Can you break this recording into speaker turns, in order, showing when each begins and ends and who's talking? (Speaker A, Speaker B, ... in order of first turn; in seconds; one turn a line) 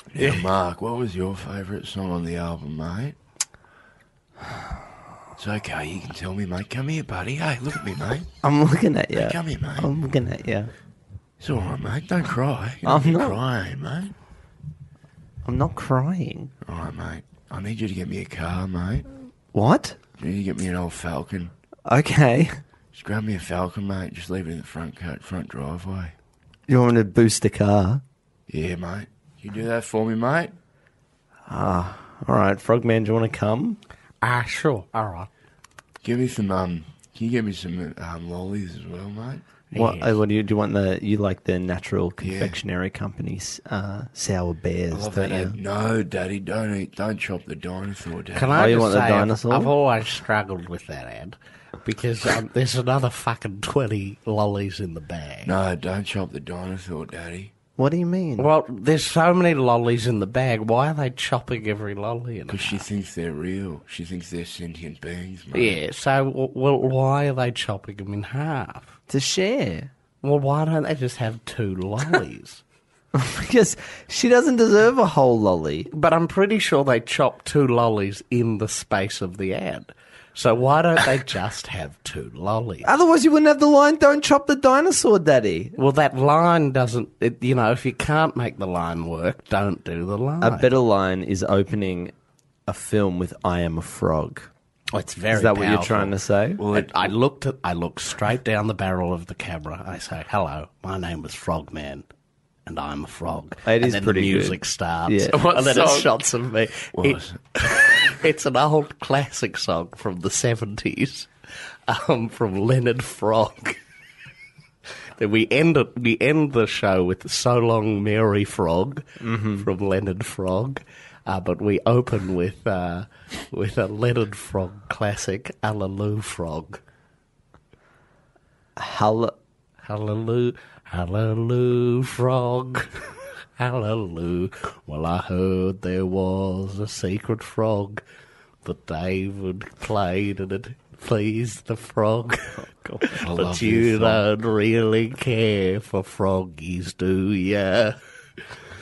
Speaker A: 0.1-3.2
Speaker A: 5.4-8.3
Speaker B: 8.4-10.7
Speaker A: 9.1-9.9
Speaker A: 11.4-14.2
Speaker B: 12.8-13.4
Speaker B: 15.4-16.5
Speaker A: 16.6-19.1
Speaker B: 19.5-20.0
Speaker A: 20.2-21.5
Speaker B: 21.9-22.6
Speaker A: 22.9-26.1
Speaker B: 26.7-28.0
Speaker A: 28.5-30.6
Speaker B: 31.5-33.8
Speaker C: 34.2-35.3
Speaker A: 36.0-39.5
Speaker C: 39.7-40.2
Speaker B: 39.8-45.6
Speaker A: 42.2-42.6
Speaker A: 44.9-48.8
Speaker C: 48.4-55.5
Speaker B: 48.6-49.7
Speaker A: 55.5-57.5
Speaker B: 57.8-58.5
Speaker C: 58.4-62.9
Speaker A: 62.5-65.8
Speaker C: 65.5-68.9
Speaker B: 69.1-69.9
Speaker C: 70.2-72.6
Speaker B: 73.1-75.9
Speaker C: 75.9-82.9
Speaker B: 82.8-85.7
Speaker C: 85.8-90.7
Speaker B: 90.4-92.1
Speaker B: 92.7-94.5
Speaker C: 94.9-96.2
Speaker B: 95.3-96.6
Speaker A: 96.6-97.1
Speaker C: 96.7-102.1
Speaker C: 102.7-111.3
Speaker B: 103.7-105.4
Speaker A: 105.3-106.1
Speaker A: 106.9-107.4
Speaker C: 111.9-113.8
Speaker C: 115.2-126.8
Speaker B: 119.2-119.7
Speaker B: 128.8-129.3
Speaker C: 129.8-132.9
Speaker C: 133.6-138.0
Speaker C: 138.6-148.0
Speaker A: 143.2-144.2